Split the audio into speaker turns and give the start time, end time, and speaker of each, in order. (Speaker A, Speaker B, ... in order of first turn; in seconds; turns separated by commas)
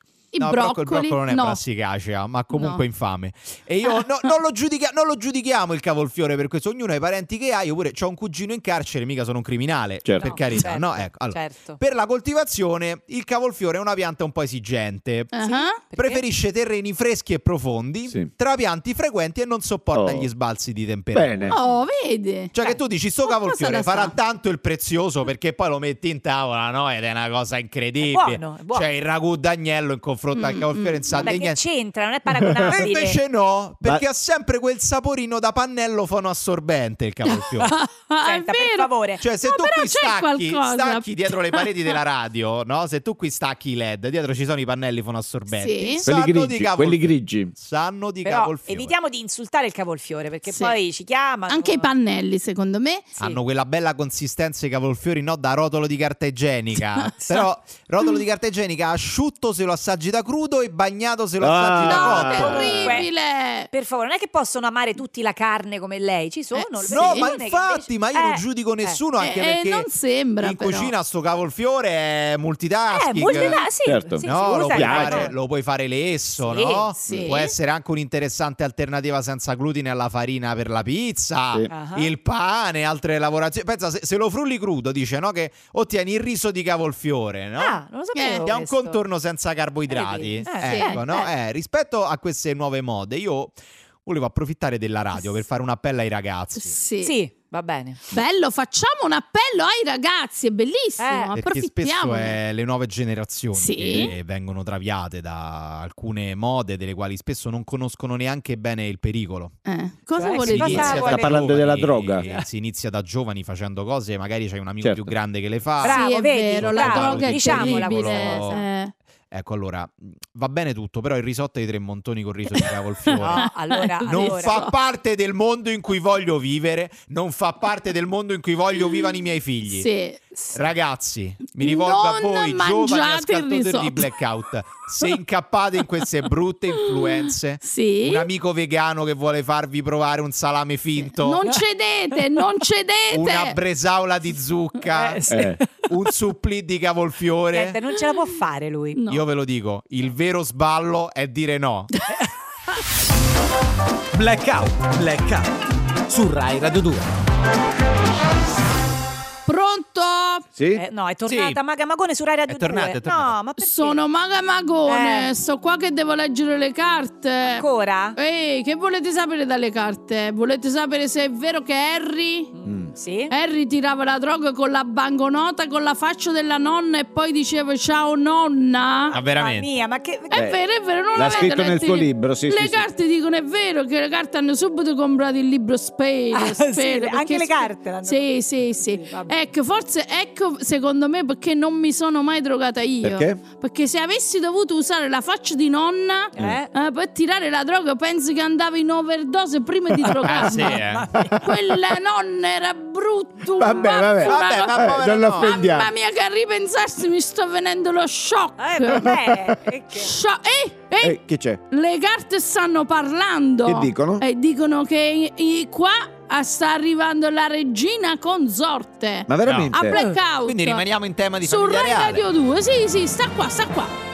Speaker A: 0.3-1.6, Speaker B: 0.4-15.4, Speaker A: 2.5-2.8, Speaker C: 10.0-10.3, Speaker D: 10.2-11.8, Speaker A: 15.3-15.8, Speaker D: 15.4-16.2, Speaker B: 15.9-21.6, Speaker C: 19.9-20.3, Speaker C: 21.1-21.6, Speaker A: 21.5-22.5, Speaker B: 22.5-31.6, Speaker A: 23.2-24.1, Speaker D: 28.0-28.9, Speaker A: 30.3-31.4, Speaker D: 31.1-33.2, Speaker B: 32.7-37.7, Speaker A: 37.2-38.9, Speaker D: 38.2-39.2, Speaker B: 39.2-48.9, Speaker A: 39.4-41.6, Speaker A: 45.5-46.0, Speaker C: 46.0-47.5, Speaker D: 48.2-51.9, Speaker A: 50.5-50.8, Speaker A: 51.5-53.1, Speaker B: 53.2-62.9, Speaker C: 61.4-62.9, Speaker A: 61.8-63.7, Speaker D: 62.5-63.1, Speaker D: 63.7-69.0, Speaker A: 66.5-67.3, Speaker B: 66.9-69.9, Speaker A: 69.2-70.9, Speaker B: 70.4-73.6, Speaker D: 72.9-75.3, Speaker A: 73.3-73.6, Speaker C: 73.8-75.3, Speaker B: 74.2-87.8, Speaker D: 76.4-77.2, Speaker A: 77.0-77.5, Speaker D: 81.7-82.1, Speaker D: 87.6-89.0, Speaker A: 88.1-88.5, Speaker B: 88.4-96.7, Speaker D: 89.9-91.3, Speaker A: 90.6-91.0, Speaker A: 96.5-97.2, Speaker D: 97.0-98.0, Speaker A: 98.1-102.4, Speaker D: 101.0-101.3, Speaker B: 101.3-109.5, Speaker A: 103.5-104.1, Speaker A: 109.7-111.2, Speaker D: 110.2-111.6, Speaker B: 110.4-118.6, Speaker C: 110.6-112.3, Speaker C: 114.8-115.1, Speaker D: 115.8-118.6, Speaker A: 115.8-118.9, Speaker B: 119.3-123.5, Speaker A: 122.5-124.7, Speaker D: 123.2-124.7, Speaker B: 124.0-129.9, Speaker A: 129.7-130.2, Speaker D: 130.3-130.6, Speaker B: 130.5-141.5, Speaker A: 131.6-134.1, Speaker A: 136.8-138.3, Speaker A: 141.0-143.6, Speaker B: 143.1-145.2, Speaker D: 144.9-145.9, Speaker C: 145.3-145.6, Speaker B: 145.9-147.8, Speaker D: 147.5-149.0, Speaker A: 148.9-149.2, Speaker B: 149.1-151.9, Speaker E: 154.1-155.5, Speaker E: 156.1-157.1, Speaker A: 159.5-160.4, Speaker C: 160.6-160.8, Speaker D: 160.7-164.0, Speaker B: 161.2-161.6, Speaker B: 162.5-163.3, Speaker A: 163.6-167.6, Speaker D: 164.8-165.3, Speaker D: 167.4-168.2, Speaker A: 168.2-172.5, Speaker D: 172.5-173.3, Speaker C: 172.7-172.9, Speaker A: 173.3-179.2, Speaker D: 179.1-180.5, Speaker B: 179.1-179.7, Speaker A: 180.3-209.3, Speaker C: 180.3-180.6, Speaker C: 181.1-182.8, Speaker D: 186.3-189.3, Speaker C: 193.0-193.4, Speaker D: 196.3-196.7, Speaker B: 200.2-201.1, Speaker D: 200.4-201.4, Speaker C: 201.1-201.6, Speaker C: 203.5-205.9, Speaker B: 204.2-205.6, Speaker D: 208.6-210.1, Speaker C: 209.1-209.5, Speaker A: 209.9-211.2, Speaker C: 211.0-211.6, Speaker A: 211.7-220.8, Speaker C: 213.6-214.2, Speaker C: 219.3-220.0, Speaker B: 219.4-219.8, Speaker D: 219.9-220.2, Speaker B: 220.4-222.2, Speaker A: 221.4-223.9